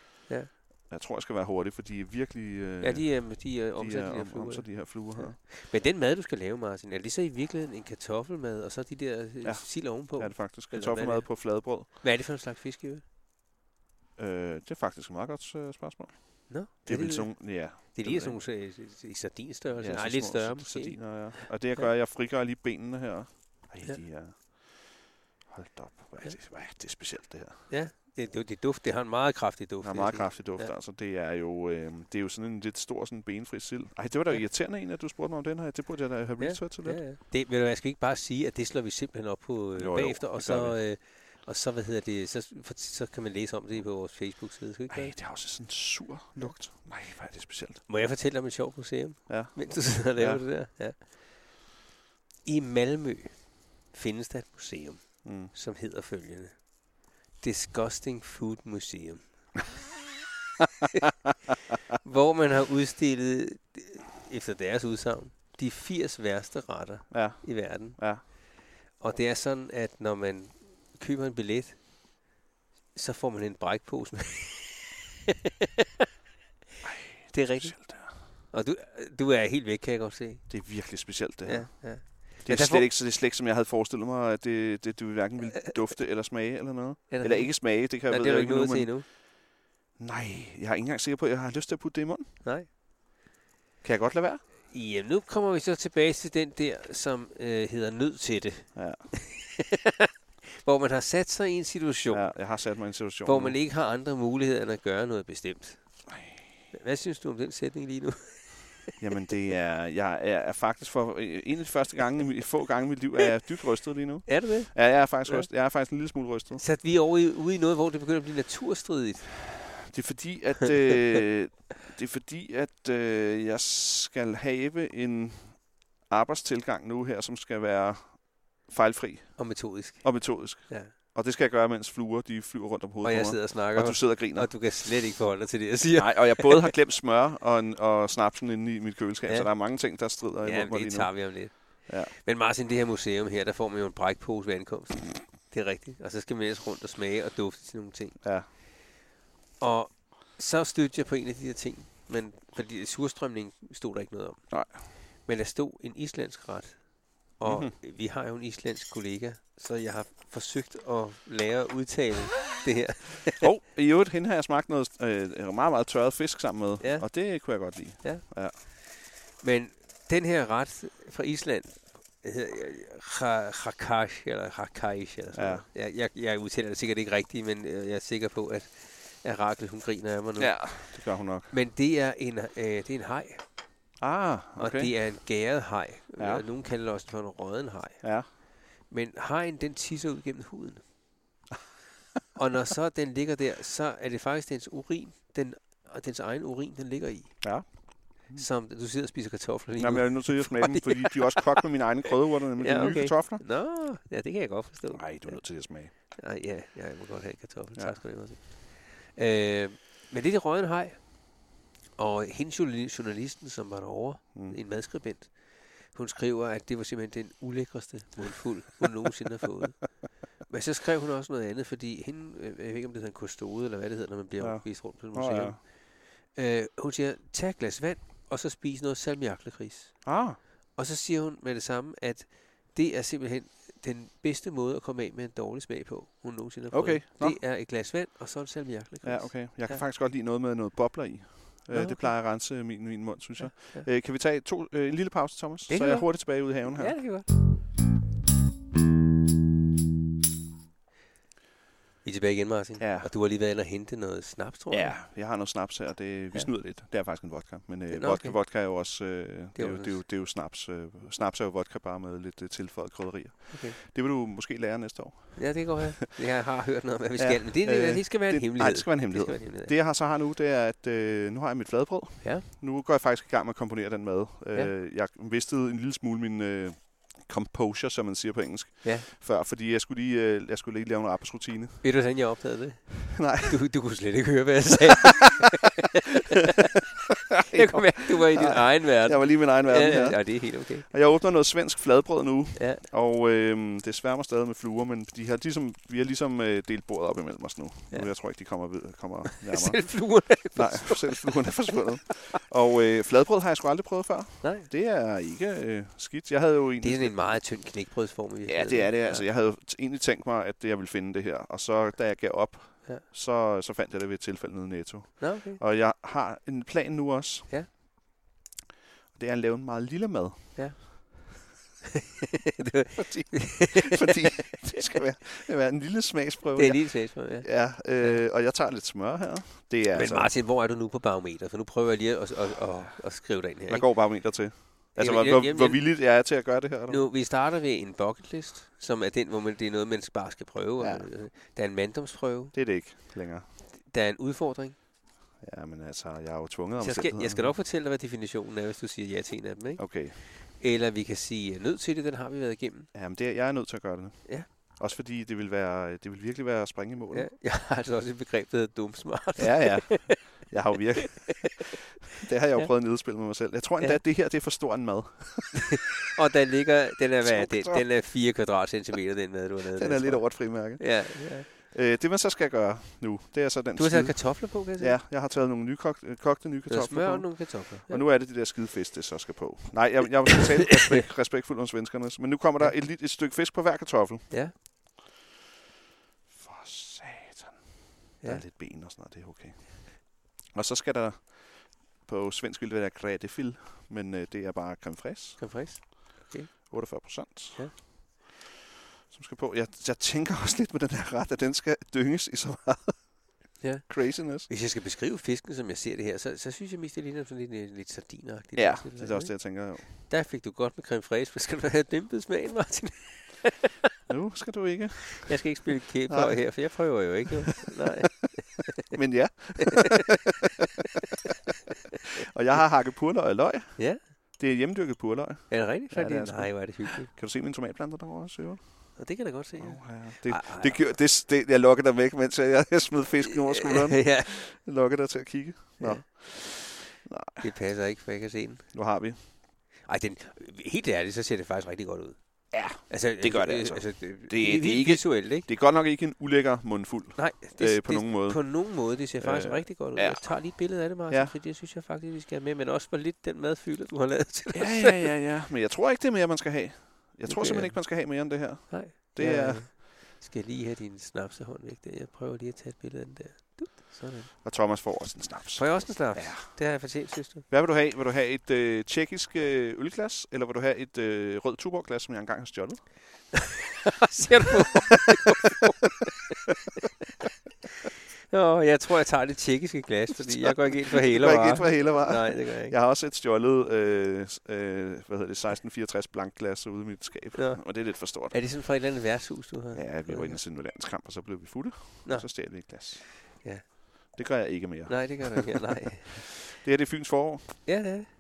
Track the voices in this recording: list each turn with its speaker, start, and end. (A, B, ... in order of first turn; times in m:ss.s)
0:00.2-0:00.5 A
0:00.9-0:05.4 B
0:02.8-0:13.0 A
0:09.4-0:11.9 B
0:14.2-0:18.4 B
0:16.5-0:21.9 A
0:19.7-0:27.7 B
0:27.7-0:30.7 A
0:29.8-0:37.0 B
0:36.4-0:45.2 A
0:39.8-0:40.8 B
0:44.9-0:47.9 B
0:47.9-0:51.6 A
0:49.3-0:50.4 B
0:52.4-0:59.6 A
0:55.2-0:55.5 B
1:02.0-1:08.4 A
1:07.1-1:08.2 B
1:08.9-1:12.2 A
1:12.9-1:15.0 A
1:16.8-1:18.2 B
1:17.3-1:22.9 A
1:20.5-1:29.3 B
1:25.7-1:26.0 A
1:27.1-1:29.0 A
1:30.0-1:32.4 B
1:33.8-1:34.4 B
1:34.7-1:42.7 A
1:38.7-1:39.1 B
1:42.1-1:43.6 B
1:43.2-1:49.0 A
1:46.2-1:46.4 B
1:49.0-1:56.6 B
1:54.2-1:55.5 A
1:56.6-1:59.8 A
1:59.8-2:14.7 B
2:09.4-2:10.9 A
2:13.0-2:16.7 A
2:16.0-2:22.1 B
2:19.3-2:28.2 A
2:28.2-2:28.5 B
2:29.6-2:43.4 A
2:34.5-2:34.8 B
2:37.4-2:37.8 B
2:43.4-2:48.6 B
2:46.8-3:03.5 A
2:55.3-2:55.6 B
3:00.4-3:01.5 B
3:04.0-3:04.9 B
3:04.6-3:10.9 A
3:06.2-3:06.5 B
3:08.0-3:08.3 B
3:12.3-3:31.4 A
3:17.4-3:18.5 B
3:19.8-3:23.4 B
3:24.9-3:25.9 B
3:27.7-3:28.0 B
3:32.0-3:59.8 A
3:34.3-3:34.6 B
3:44.4-3:45.6 B
3:50.0-3:50.4 B
3:56.7-3:57.4 B
3:59.0-4:07.2 B
4:01.7-4:02.7 A
4:03.4-4:03.9 A
4:05.7-4:07.3 A
4:12.0-4:15.0 A
4:12.8-4:13.1 B
4:14.7-4:25.9 B
4:17.9-4:19.0 A
4:19.5-4:20.0 A
4:23.5-4:23.8 A
4:25.4-4:29.7 A
4:27.2-4:42.0 B
4:32.2-4:32.4 A
4:41.8-4:45.7 A
4:43.1-4:43.6 B
4:46.3-4:46.7 A
4:47.3-4:50.9 A
4:47.4-5:07.3 B
4:52.6-4:52.8 A
4:57.9-4:58.2 A
4:59.4-5:01.8 A
5:04.4-5:04.7 A
5:06.8-5:09.2 A
5:08.5-5:17.5 B
5:15.2-5:15.6 A
5:19.1-5:20.6 B
5:20.6-5:21.4 A
5:22.2-5:25.0 A
5:23.0-5:30.3 B
5:26.5-5:28.2 A
5:29.9-5:34.4 A
5:33.7-5:37.1 B
5:35.0-5:35.9 A
5:36.9-5:42.5 A
5:40.8-5:41.1 B
5:42.5-5:43.4 B
5:43.7-5:44.8 A
5:45.4-5:47.6 B
5:46.8-5:52.9 A
5:49.8-5:50.2 B
5:52.9-5:57.3 B
5:57.1-6:00.5 A
5:59.4-6:05.9 B
6:02.5-6:03.2 A
6:06.1-6:11.5 A
6:07.2-6:07.9 B
6:09.7-6:24.6 B
6:13.8-6:15.0 A
6:16.7-6:18.0 A
6:26.3-6:35.8 B
6:35.4-6:37.8 A
6:36.7-6:38.4 B
6:39.1-6:43.3 B
6:43.6-6:53.9 A
6:43.9-6:44.5 B
6:48.5-6:50.0 B
6:54.1-6:55.4 B
6:55.1-6:59.0 A
6:56.1-6:56.9 B
6:57.8-6:58.3 B
6:58.9-7:00.3 B
7:02.2-7:17.5 B
7:03.8-7:04.0 A
7:05.5-7:07.1 A
7:09.0-7:11.0 A
7:13.3-7:14.4 A
7:15.8-7:16.1 A
7:17.4-7:18.7 A
7:18.7-7:19.2 B
7:19.8-7:25.5 A
7:22.5-7:31.3 B
7:27.2-7:35.1 A
7:34.5-7:39.7 B
7:37.2-7:44.4 A
7:44.4-7:46.9 B
7:45.6-7:47.4 A
7:47.5-7:52.9 B
7:53.8-7:56.5 A
7:54.7-7:55.0 B
7:58.3-8:02.8 A
8:00.2-8:08.4 B
8:07.3-8:10.4 A
8:09.7-8:13.2 B
8:12.0-8:14.1 A
8:14.1-8:17.8 B
8:14.9-8:16.2 A
8:17.6-8:18.1 A